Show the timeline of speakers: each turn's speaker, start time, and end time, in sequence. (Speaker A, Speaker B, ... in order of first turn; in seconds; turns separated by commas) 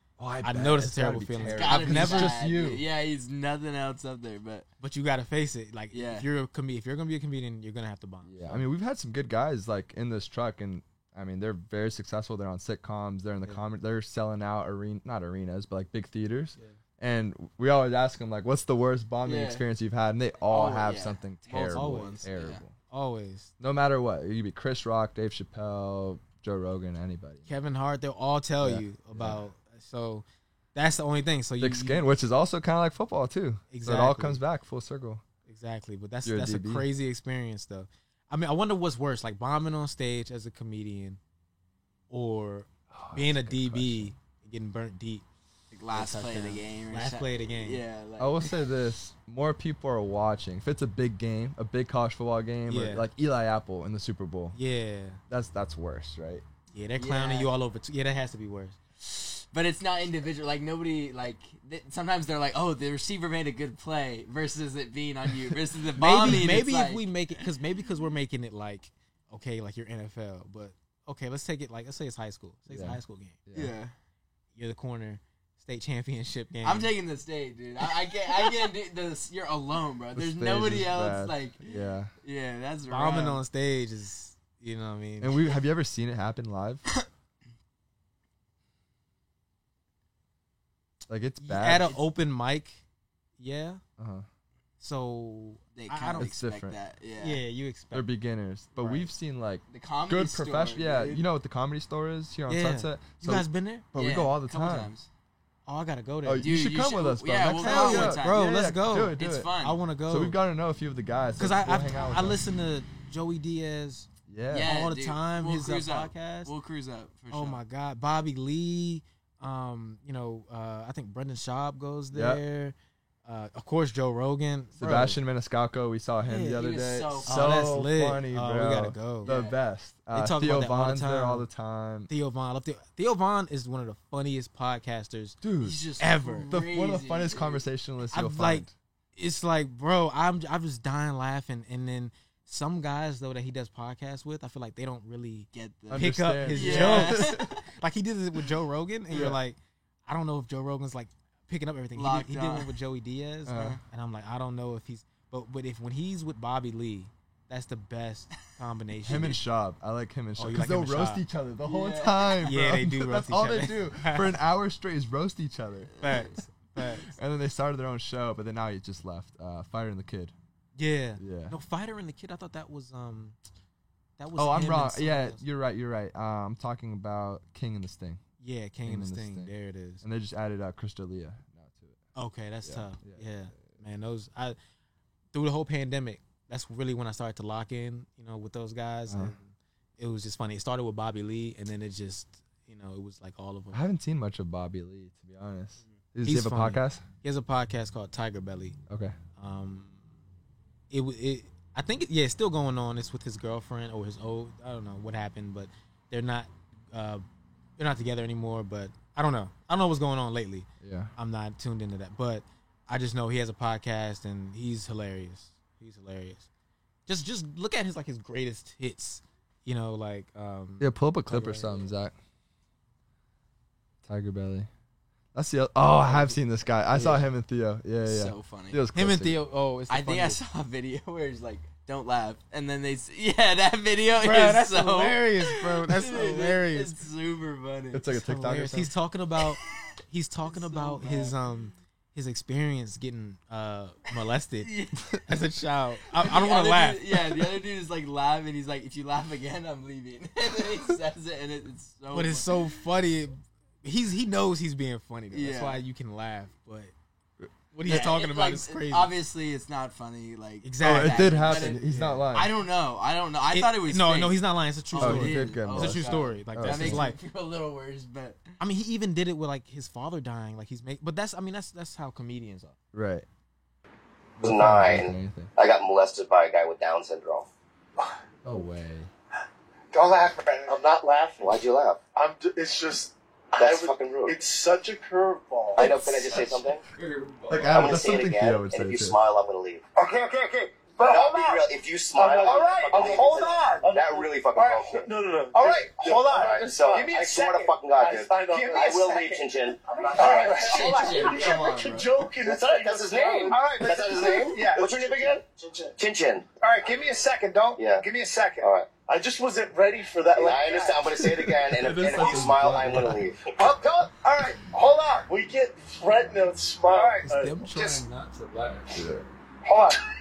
Speaker A: 0.2-2.8, Speaker B: 0.4-2.4, Speaker C: 1.5-4.7, Speaker B: 4.8-8.6, Speaker C: 5.9-6.3, Speaker A: 8.2-22.7, Speaker C: 19.2-19.6, Speaker C: 20.5-22.6, Speaker B: 21.5-22.3, Speaker B: 22.9-23.5, Speaker A: 23.6-27.5, Speaker B: 27.5-32.0, Speaker A: 28.6-29.4, Speaker A: 31.6-35.2, Speaker B: 33.7-34.4, Speaker B: 35.5-41.2, Speaker A: 36.2-36.9, Speaker B: 42.1-45.2, Speaker A: 42.9-44.1, Speaker C: 45.7-48.6, Speaker B: 45.9-47.8, Speaker A: 48.2-54.5, Speaker B: 52.7-53.1, Speaker B: 54.5-55.2, Speaker A: 55.3-56.4, Speaker B: 56.7-58.8, Speaker C: 57.0-57.5, Speaker C: 59.0-67.0, Speaker B: 66.0-73.4, Speaker A: 72.7-73.7, Speaker C: 73.5-73.9, Speaker B: 74.5-76.9, Speaker C: 76.6-83.4, Speaker A: 80.1-82.1, Speaker B: 82.9-85.3, Speaker A: 85.2-86.9, Speaker A: 91.1-92.0, Speaker B: 91.4-92.8, Speaker B: 93.4-93.8, Speaker A: 94.0-94.2, Speaker B: 94.8-96.3, Speaker C: 95.7-97.4, Speaker A: 96.2-96.8, Speaker B: 97.2-98.1, Speaker A: 97.9-104.9, Speaker B: 98.7-99.1, Speaker C: 99.7-101.2, Speaker B: 102.5-103.9, Speaker C: 104.0-105.1, Speaker B: 105.7-106.5, Speaker A: 106.2-109.5, Speaker C: 106.4-108.4, Speaker B: 107.6-110.4, Speaker C: 109.2-109.8, Speaker A: 110.1-112.4, Speaker B: 111.4-116.5, Speaker A: 114.3-114.7, Speaker C: 114.5-117.6, Speaker B: 117.3-122.7, Speaker A: 122.1-122.4, Speaker B: 123.2-125.2, Speaker A: 124.8-132.1, Speaker B: 126.2-126.6, Speaker C: 126.5-127.3, Speaker B: 127.2-129.3, Speaker C: 129.2-129.6, Speaker B: 130.1-131.5, Speaker B: 132.1-135.4, Speaker A: 135.4-135.8, Speaker C: 135.6-137.6, Speaker B: 136.0-136.5, Speaker A: 136.5-138.7, Speaker B: 138.1-138.6, Speaker B: 139.2-159.3, Speaker C: 145.5-147.5, Speaker A: 145.9-147.5, Speaker A: 149.1-149.4, Speaker C: 151.9-152.7, Speaker A: 153.4-153.8, Speaker A: 159.0-165.9, Speaker B: 160.4-161.2, Speaker C: 161.6-162.5, Speaker B: 162.4-164.3, Speaker C: 165.9-166.4, Speaker B: 166.0-167.1, Speaker A: 167.0-170.3, Speaker B: 170.8-173.4, Speaker A: 171.2-171.6, Speaker B: 174.2-175.4, Speaker A: 174.3-178.2, Speaker B: 178.4-180.0, Speaker A: 178.8-182.0, Speaker B: 182.1-184.6, Speaker A: 182.6-183.7, Speaker B: 185.3-193.8, Speaker A: 189.1-189.3, Speaker A: 193.7-197.0, Speaker B: 196.2-198.8, Speaker A: 198.9-199.2, Speaker B: 199.4-199.9, Speaker B: 200.9-207.2, Speaker B: 207.8-216.5, Speaker A: 210.8-211.1, Speaker B: 217.1-221.8, Speaker A: 220.8-222.1, Speaker A: 224.0-224.7, Speaker A: 225.3-229.4, Speaker B: 226.1-226.3, Speaker B: 226.9-227.2, Speaker C: 228.0-228.8, Speaker B: 228.9-230.4, Speaker C: 229.9-238.1, Speaker B: 234.2-236.9, Speaker A: 237.9-238.9, Speaker B: 238.1-244.7, Speaker C: 240.4-241.5, Speaker C: 244.6-245.0, Speaker B: 245.2-247.1, Speaker C: 246.2-252.5, Speaker B: 252.1-256.9, Speaker C: 255.3-255.8, Speaker A: 257.4-257.9, Speaker B: 257.7-259.1, Speaker C: 257.9-268.5, Speaker B: 260.6-262.2, Speaker A: 260.8-262.5, Speaker B: 263.5-267.2, Speaker A: 265.0-267.1, Speaker B: 268.6-272.8, Speaker A: 272.9-273.2, Speaker A: 274.4-275.5, Speaker D: 274.4-277.5, Speaker A: 278.4-279.1, Speaker E: 279.9-281.6, Speaker D: 280.7-282.0, Speaker E: 282.1-286.1, Speaker D: 283.6-284.4, Speaker D: 285.8-286.8, Speaker C: 286.3-287.8, Speaker A: 287.5-289.2, Speaker D: 287.7-289.9, Speaker E: 289.9-305.9, Speaker D: 291.0-301.4, Speaker C: 300.5-302.3, Speaker D: 302.4-305.4, Speaker D: 306.0-306.5, Speaker E: 306.6-318.0, Speaker D: 307.8-308.0, Speaker D: 308.6-308.9, Speaker D: 310.3-313.5, Speaker A: 311.8-313.2, Speaker B: 317.2-318.9, Speaker A: 318.9-319.2, Speaker E: 319.6-320.0